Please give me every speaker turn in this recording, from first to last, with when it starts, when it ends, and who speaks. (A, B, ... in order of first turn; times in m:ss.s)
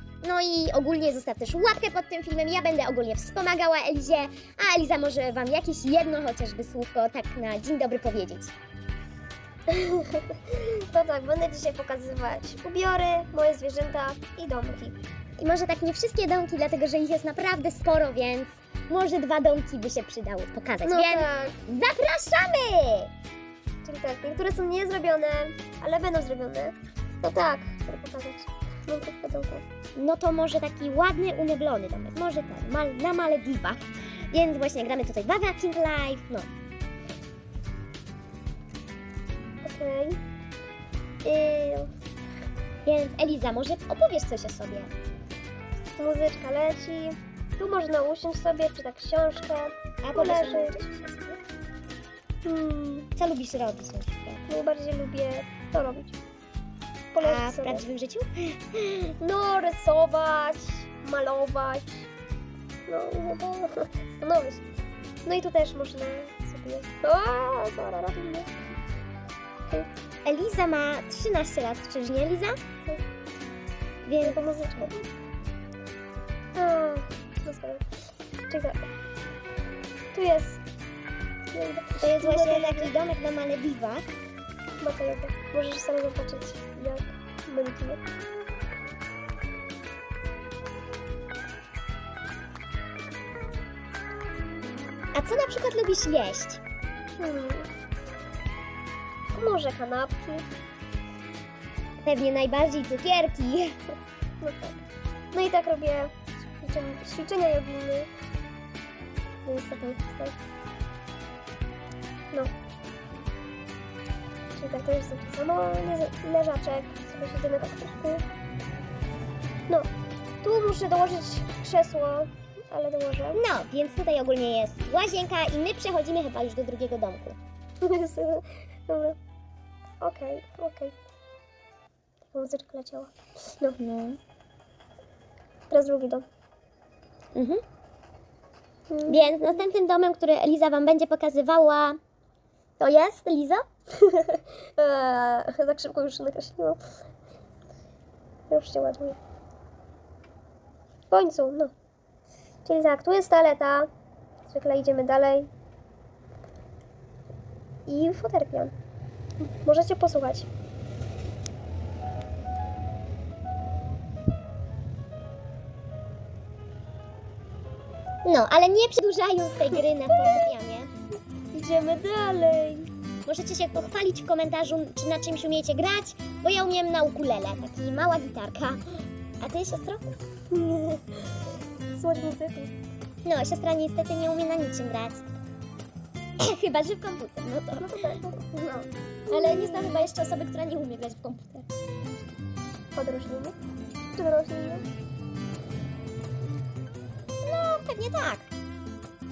0:00.2-0:08.5 A
0:09.7-0:15.0 B
0:15.4-0:23.1 A
0:20.8-0:21.6 B
0:23.8-0:29.6 B
0:30.0-0:36.5 A
0:39.6-0:40.2 B
0:41.2-0:41.9 B
0:42.8-0:44.9 A
0:46.0-0:50.8 B
0:50.0-0:51.4 A
0:52.4-0:53.1 B
0:53.2-0:54.4 A
0:54.5-0:56.2 B
0:57.1-0:57.8 B
0:57.2-0:59.1 A
0:59.2-1:02.1 B
1:02.9-1:04.6 B
1:05.2-1:08.5 B
1:10.2-1:12.6 A
1:14.0-1:14.9 A
1:14.2-1:15.1 B
1:16.6-1:17.9 B
1:18.5-1:18.8 B
1:20.1-1:20.6 B
1:21.5-1:22.9 B
1:22.0-1:24.1 A
1:24.8-1:28.0 B
1:35.1-1:36.6 A
1:37.2-1:37.7 B
1:39.3-1:40.5 B
1:42.0-1:43.8 A
1:44.4-1:48.1 B
1:49.4-1:50.4 B
1:54.6-1:58.3 B
2:00.4-2:03.4 B
2:03.4-2:07.4 A
2:07.8-2:09.2 B
2:10.0-2:10.9 B
2:12.3-2:13.8 B
2:13.8-2:14.2 A
2:15.7-2:16.2 B
2:17.4-2:17.6 A
2:18.9-2:19.2 B
2:19.1-2:22.0 A
2:22.8-2:23.6 A
2:24.0-2:26.8 B
2:28.5-2:29.2 B
2:31.1-2:31.7 B
2:32.6-2:33.9 B
2:34.5-2:35.5 B
2:37.9-2:38.7 B
2:39.5-2:40.5 B
2:48.2-2:50.9 A
2:51.5-2:52.9 B
2:53.3-2:58.8 A
2:59.4-3:00.1 A
3:00.5-3:01.3 B
3:01.9-3:02.7 B
3:03.2-3:05.2 A
3:06.4-3:11.7 A
3:07.8-3:08.5 B
3:09.3-3:10.0 B
3:13.0-3:13.6 B
3:14.2-3:14.9 B
3:17.4-3:18.5 A